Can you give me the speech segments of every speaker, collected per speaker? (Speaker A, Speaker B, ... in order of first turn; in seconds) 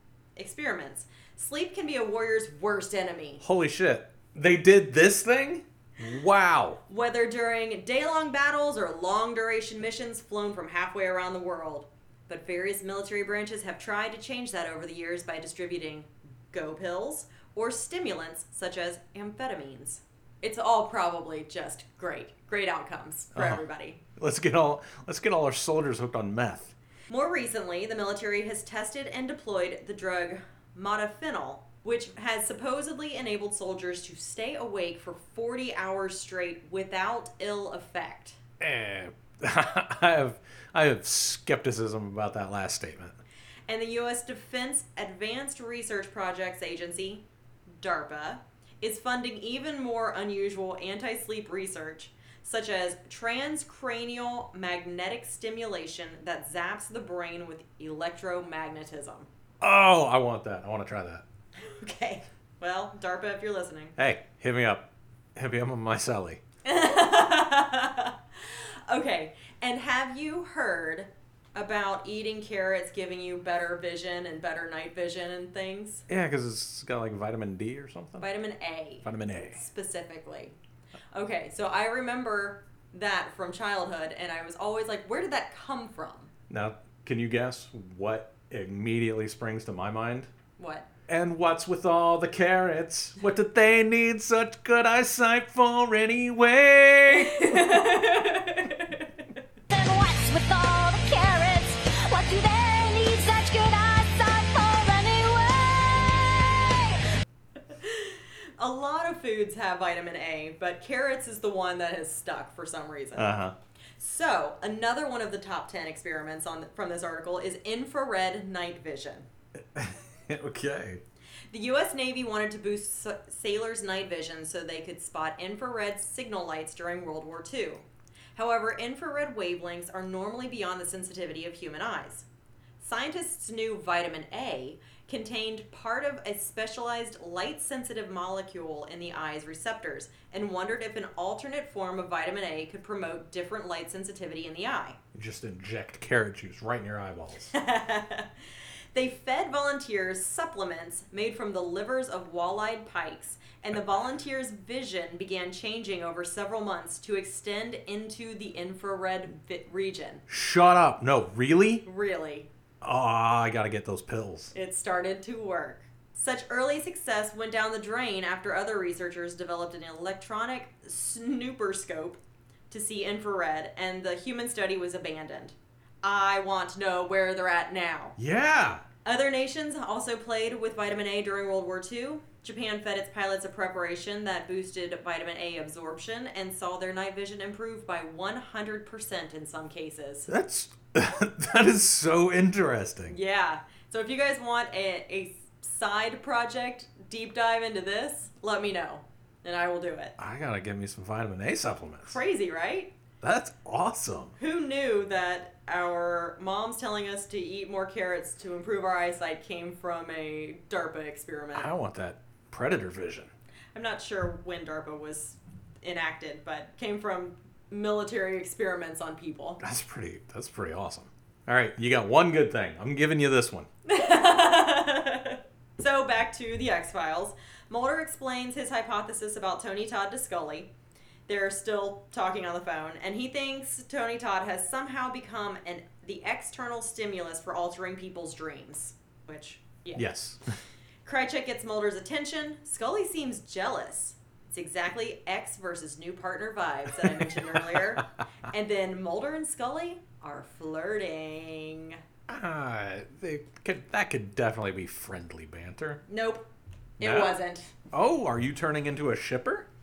Speaker A: 0.3-3.4, 6.9-24.0, 27.1-38.4, 43.7-47.2, 47.8-59.3, 61.6-63.9, 66.6-76.0, 78.2-80.5, 81.1-86.3, 90.6-90.9, 97.2-99.1, 107.7-113.3, 114.0-119.3, 121.5-132.2, 132.8-145.0, 147.5-148.3, 148.9-160.2, 161.8-162.5, 164.5-172.2, 172.7-178.2, 179.0-190.3, 193.1-200.2, 202.0-202.9, 204.4-211.7, 213.7-219.6, 223.8-230.7, 231.3-240.1, 241.0-252.0, 256.1-256.5, 257.0-257.7
Speaker B: 3.4-6.8, 23.3-23.6, 24.1-26.7, 38.6-43.2, 59.6-61.2, 64.0-66.4, 76.1-78.3, 79.0-79.6, 86.5-90.3, 91.1-97.7, 113.2-113.5, 119.6-121.0, 145.1-147.5, 160.3-161.8, 162.8-164.5, 178.2-178.8, 190.3-193.2, 200.2-202.2, 203.2-204.3, 211.5-213.3, 219.6-223.7, 239.9-240.5, 247.0-247.8, 252.3-256.0, 257.0-257.4, 257.9-259.7
Speaker C: 99.7-107.0